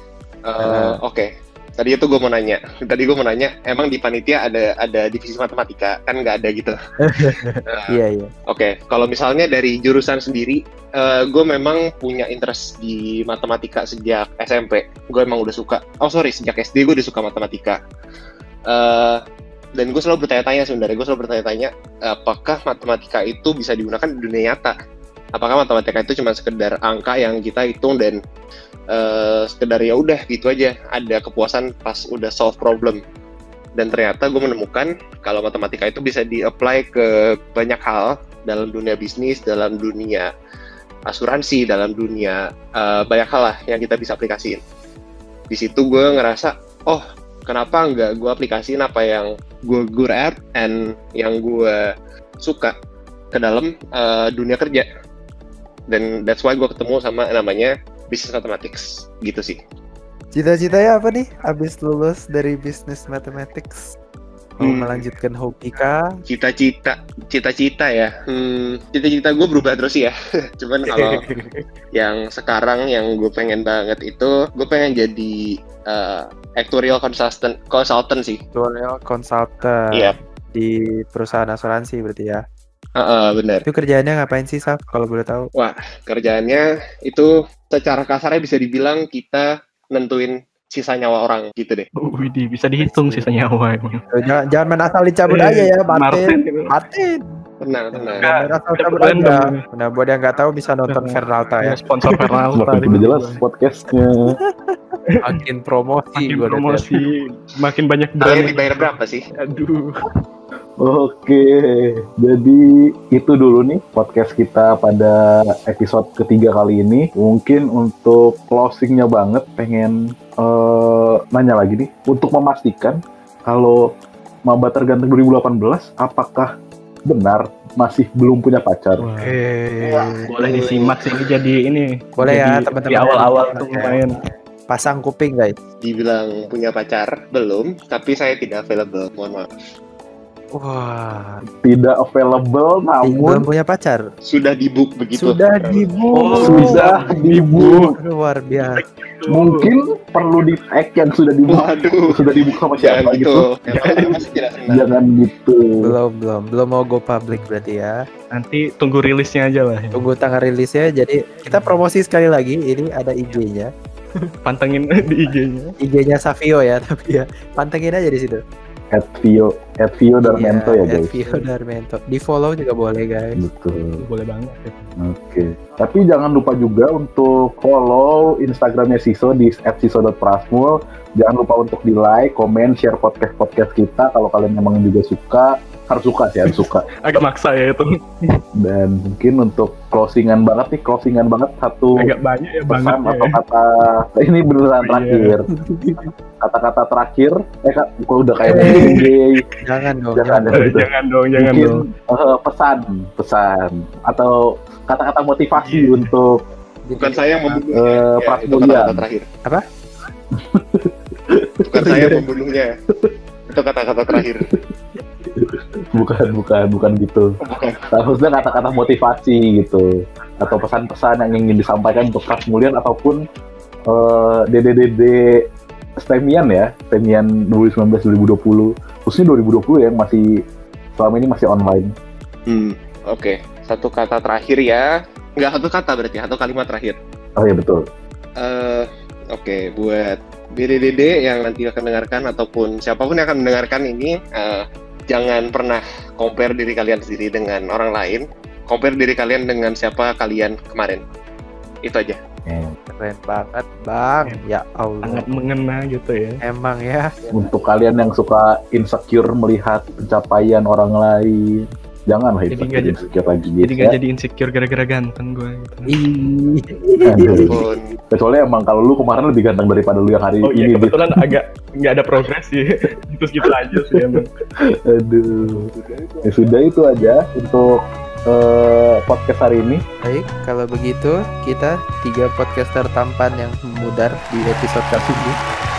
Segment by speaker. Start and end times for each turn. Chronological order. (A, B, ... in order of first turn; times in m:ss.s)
0:00.5-0:06.7 A
0:00.6-0:01.0 B
0:07.0-0:08.3 B
0:08.5-0:17.8 A
0:18.7-0:19.2 A
0:19.8-0:24.8 A
0:25.4-0:28.2 A
0:28.9-0:33.0 A
0:33.8-0:40.3 A
0:41.1-0:44.6 A
0:45.5-0:51.8 A
0:52.4-0:52.8 A
0:53.3-0:54.9 A
0:55.9-0:59.6 A
1:00.3-1:03.9 B
1:04.6-1:06.0 B
1:04.6-1:05.0 A
1:06.3-1:11.1 A
1:10.9-1:11.7 C
1:12.0-1:15.4 A
1:15.9-1:18.4 A
1:18.6-1:22.4 B
1:23.0-1:23.6 A
1:23.7-1:25.5 B
1:25.6-1:31.9 A
1:32.0-1:34.0 C
1:32.8-1:33.3 B
1:34.1-1:37.2 B
1:35.3-1:36.7 C
1:37.6-1:38.2 A
1:38.0-1:39.6 C
1:38.2-1:42.2 B
1:40.9-1:43.4 C
1:42.5-1:44.4 D
1:44.4-1:47.0 B
1:46.2-1:49.0 C
1:48.2-1:49.2 A
1:49.5-1:50.1 C
1:50.8-2:03.8 D
2:04.5-2:06.5 D
2:07.1-2:09.1 D
2:09.0-2:14.2 C
2:09.2-2:10.0 B
2:12.2-2:15.6 B
2:15.8-2:19.5 A
2:20.5-2:21.4 B
2:21.6-2:23.5 D
2:23.0-2:24.0 B
2:24.3-2:25.4 A
2:25.2-2:26.9 B
2:25.6-2:27.9 C
2:26.4-2:27.9 D
2:28.0-2:28.8 B
2:28.7-2:29.7 C
2:29.3-2:33.5 D
2:31.5-2:32.2 A
2:32.8-2:34.8 A
2:33.7-2:34.3 C
2:34.7-2:36.0 D
2:35.8-2:37.9 B
2:38.3-2:40.1 C
2:40.0-2:43.7 B
2:41.5-2:41.8 C
2:44.4-2:45.7 C
2:45.8-2:48.4 B
2:48.9-2:51.2 D
2:50.2-2:53.4 B
2:53.4-2:54.0 D
2:54.0-2:54.9 C
2:55.0-3:06.8 D
3:06.5-3:08.4 C
3:08.6-3:12.1 D
3:12.0-3:13.4 C
3:12.7-3:15.5 D
3:14.8-3:15.4 C
3:15.5-3:16.1 B
3:16.4-3:19.4 D
3:18.4-3:18.9 B
3:18.6-3:19.6 C
3:19.6-3:20.6 B
3:20.2-3:26.4 D
3:20.5-3:21.9 C
3:25.6-3:26.1 C
3:26.9-3:27.6 B
3:27.0-3:29.2 A
3:27.7-3:29.1 D
3:30.4-3:32.2 D
3:31.7-3:32.7 A
3:31.8-3:32.2 B
3:33.5-3:34.4 A
3:35.4-3:37.3 D
3:37.5-3:37.8 A
3:37.9-3:39.8 D
3:40.4-3:43.2 D
3:43.9-3:45.4 D
3:46.0-3:50.2 D
3:51.0-3:51.9 D
3:52.5-3:57.0 A
3:57.4-3:57.8 D
3:58.4-4:11.0 A
4:11.8-4:12.2 A
4:12.5-4:12.8 D
4:12.9-4:15.2 B
4:15.0-4:16.4 C
4:16.4-4:17.1 B
4:17.3-4:24.0 D
4:22.5-4:23.1 C
4:23.6-4:26.0 C
4:25.9-4:27.5 B
4:27.0-4:27.6 D
4:27.5-4:27.8 A
4:28.1-4:31.2 D
4:30.4-4:34.3 C
4:33.4-4:34.2 D
4:34.9-4:35.7 D
4:36.2-4:37.8 D
4:38.3-4:39.8 D
4:40.0-4:45.4 B